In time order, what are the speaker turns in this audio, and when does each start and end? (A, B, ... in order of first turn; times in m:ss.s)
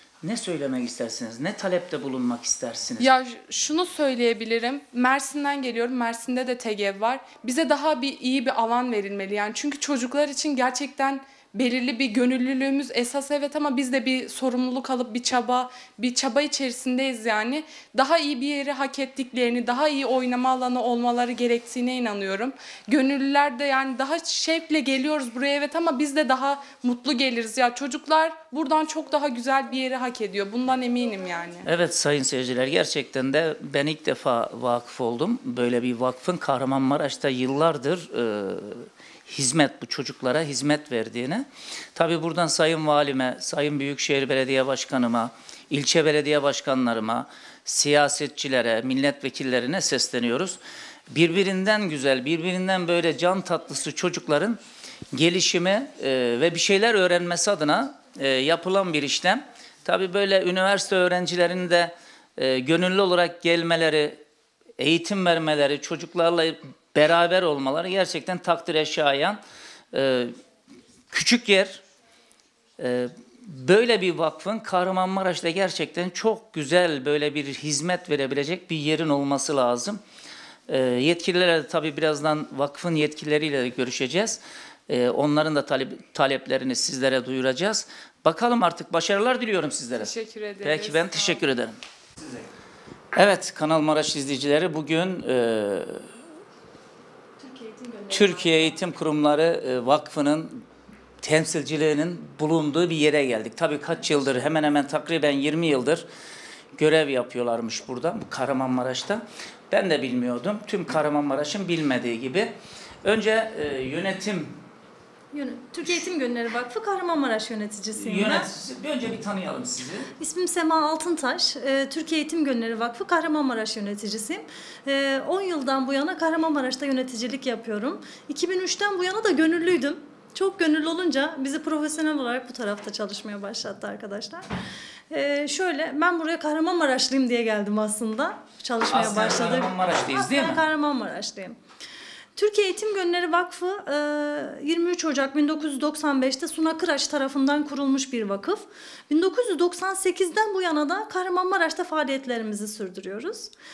0:00.2-0:03.1 A
0:03.0-0:31.7 B
0:31.7-0:50.6 A
0:51.1-0:54.6 A
0:55.1-1:04.2 A
1:04.8-1:09.4 A
1:09.9-1:10.3 A
1:11.1-1:11.8 A
1:12.8-1:20.0 A
1:20.7-1:31.8 A
1:30.0-1:31.4 B
1:33.2-1:36.1 A
1:37.4-1:38.8 C
1:38.1-1:40.6 A
1:41.2-1:46.1 A
1:46.8-1:52.5 A
1:53.0-1:54.6 A
1:55.3-1:58.5 C
1:58.0-2:00.1 A
2:00.2-2:14.5 C
2:15.1-2:21.6 C
2:18.9-2:20.6 A
2:22.4-2:33.5 C